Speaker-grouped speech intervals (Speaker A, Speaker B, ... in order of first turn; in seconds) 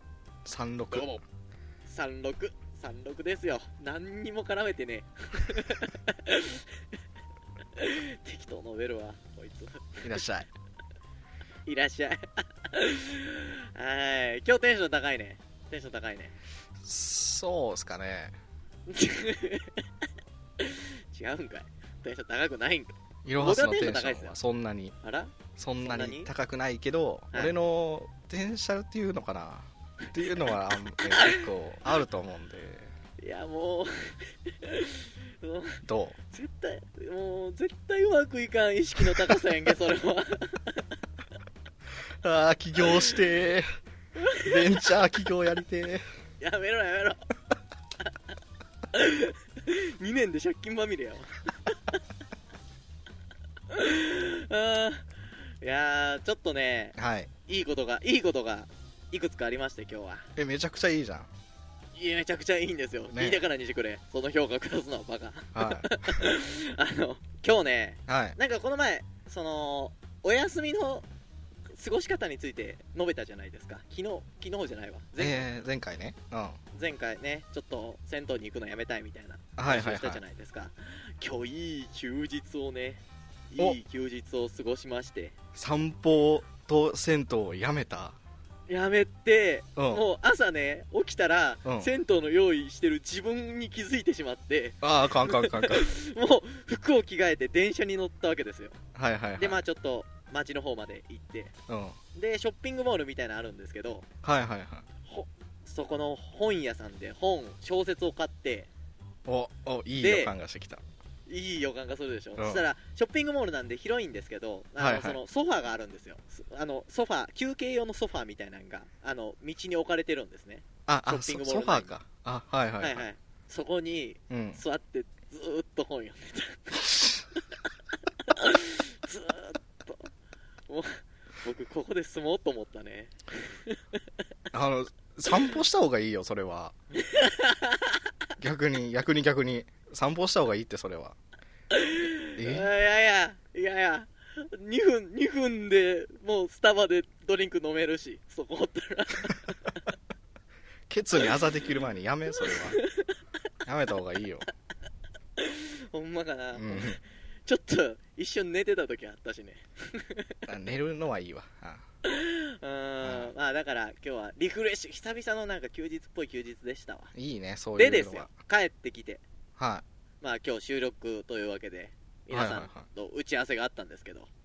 Speaker A: 0.5-1.1, 10.0-10.5, 16.8-18.4, 23.2-25.0, 25.6-32.9, 35.8-36.2, 42.2-43.7, 44.4-46.0, 57.0-57.3, 60.4-61.3, 63.1-63.4, 65.5-66.3, 68.1-68.4, 75.2-76.6, 79.6-80.2, 85.5-88.2, 89.8-90.0, 91.7-91.9, 94.8-95.9, 99.0-99.6, 101.7-102.0, 104.2-104.9, 109.3-110.8, 112.4-112.7, 114.8-115.2, 120.9-123.1, 124.3-124.6, 126.8-127.2, 134.5-136.8, 138.4-141.2, 142.4-142.7, 150.9-152.8, 153.7-154.5, 156.5-157.0, 160.5-161.8, 163.0-163.3, 167.1-168.3, 169.6-169.8, 172.3-172.9
Speaker B: 0.9-1.2, 1.9-6.7, 7.8-10.2, 11.7-16.4, 18.9-19.8, 20.6-24.4, 25.0-26.3, 31.1-31.5, 33.2-40.8, 44.2-44.6, 46.4-47.2, 48.9-51.8, 53.7-55.1, 55.6-57.0, 57.5-60.3, 62.0-71.1, 71.7-75.5, 76.7-85.3, 88.7-98.8, 99.4-101.5, 102.1-104.1, 105.1-108.7, 110.0-110.3, 111.3-121.9, 122.8-127.1, 128.3-130.1, 130.7-133.1, 137.0-137.9, 141.7-149.6, 152.4-153.1, 155.4-160.3, 162.1-167.1, 167.8-169.2, 170.2-174.3